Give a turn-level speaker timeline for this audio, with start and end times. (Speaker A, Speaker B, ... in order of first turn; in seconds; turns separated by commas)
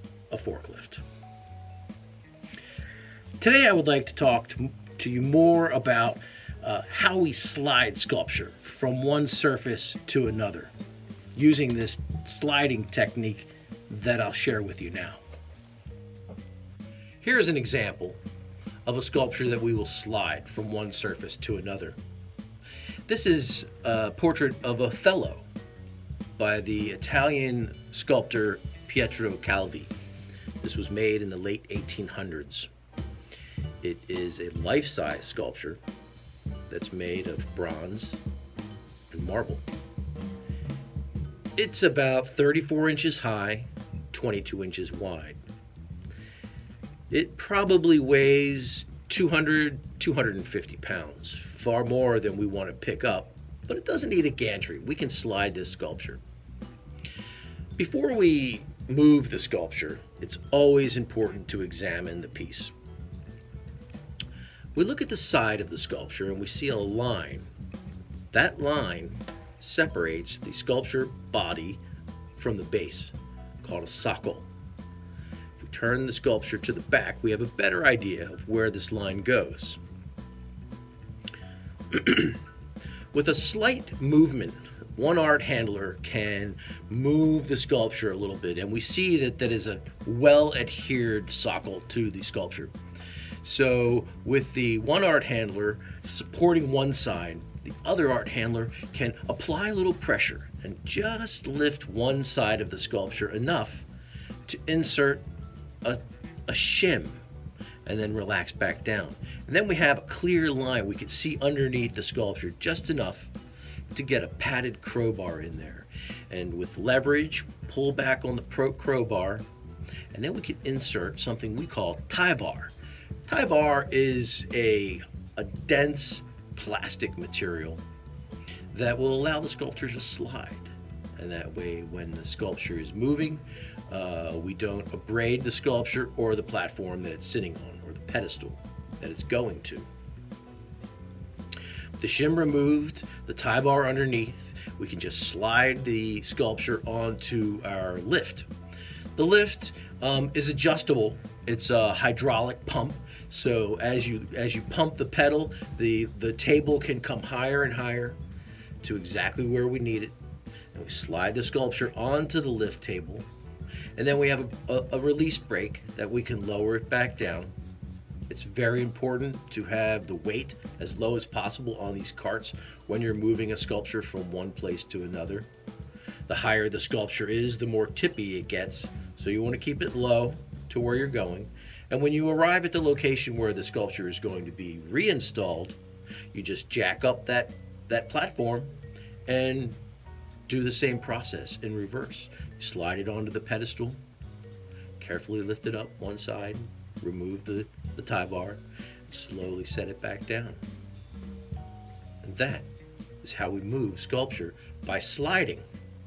Speaker A: 0.3-1.0, Speaker A: 3.4-10.7, Speaker A: 11.3-15.2, Speaker A: 17.2-18.2, Speaker A: 18.9-22.0, Speaker A: 23.1-25.4, Speaker A: 26.4-29.9, Speaker A: 30.6-32.7, Speaker A: 33.8-35.8, Speaker A: 36.7-38.2, Speaker A: 39.1-39.6, Speaker A: 41.6-45.4, Speaker A: 47.1-56.2, Speaker A: 57.8-62.7, Speaker A: 64.8-67.5, Speaker A: 68.3-71.8, Speaker A: 72.4-74.5, Speaker A: 75.6-79.8, Speaker A: 81.9-82.4, Speaker A: 83.1-92.7, Speaker A: 93.4-103.9, Speaker A: 104.5-105.2, Speaker A: 105.8-107.2, Speaker A: 107.9-113.3, Speaker A: 113.9-119.4, Speaker A: 120.1-122.7, Speaker A: 123.2-127.8, Speaker A: 128.7-139.9, Speaker A: 142.0-148.5, Speaker A: 149.2-158.2, Speaker A: 158.8-160.1, Speaker A: 160.7-163.3, Speaker A: 164.0-167.5, Speaker A: 168.3-175.5, Speaker A: 176.3-185.8, Speaker A: 186.3-188.7, Speaker A: 189.3-189.8, Speaker A: 190.5-194.0, Speaker A: 195.0-200.6, Speaker A: 202.2-202.7, Speaker A: 203.2-205.6